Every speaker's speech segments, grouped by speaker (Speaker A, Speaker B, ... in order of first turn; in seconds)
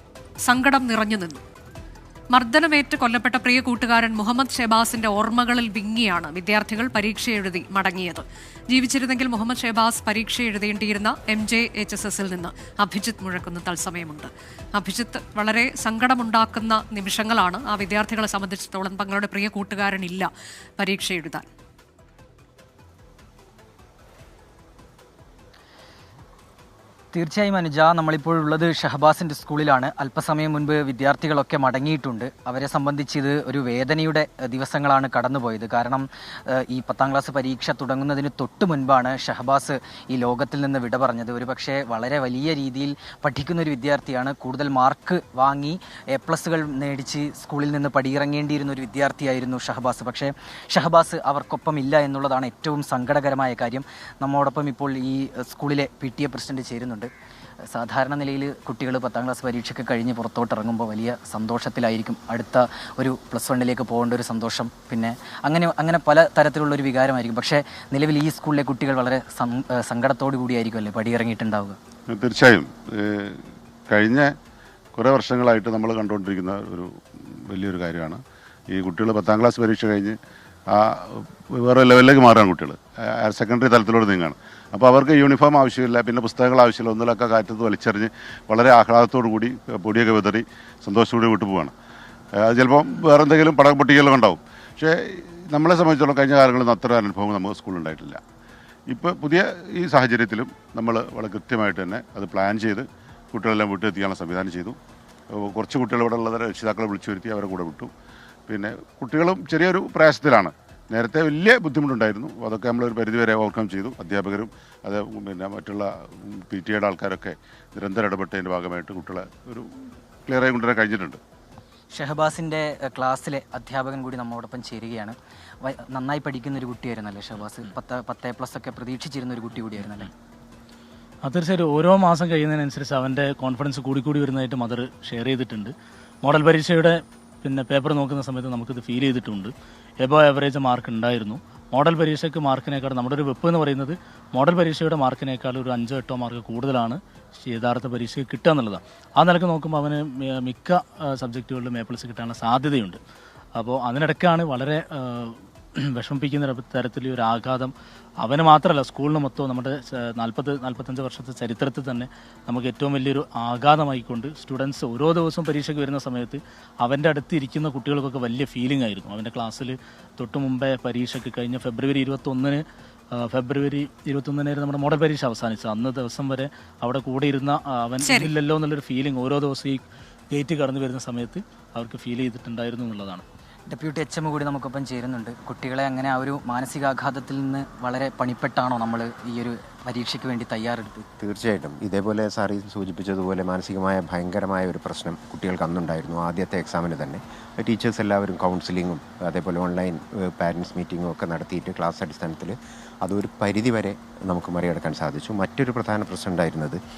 Speaker A: 0.4-1.4, 2.3-21.5, 178.0-178.3
Speaker B: 27.1-57.1, 57.7-71.8, 121.9-130.1, 183.7-191.1
Speaker C: 72.1-74.3, 75.0-80.2, 80.7-91.7, 92.4-98.2, 98.9-104.8, 105.3-107.9, 108.5-119.7, 120.3-121.2
Speaker D: 131.2-153.0, 153.6-183.2
Speaker E: 191.2-206.8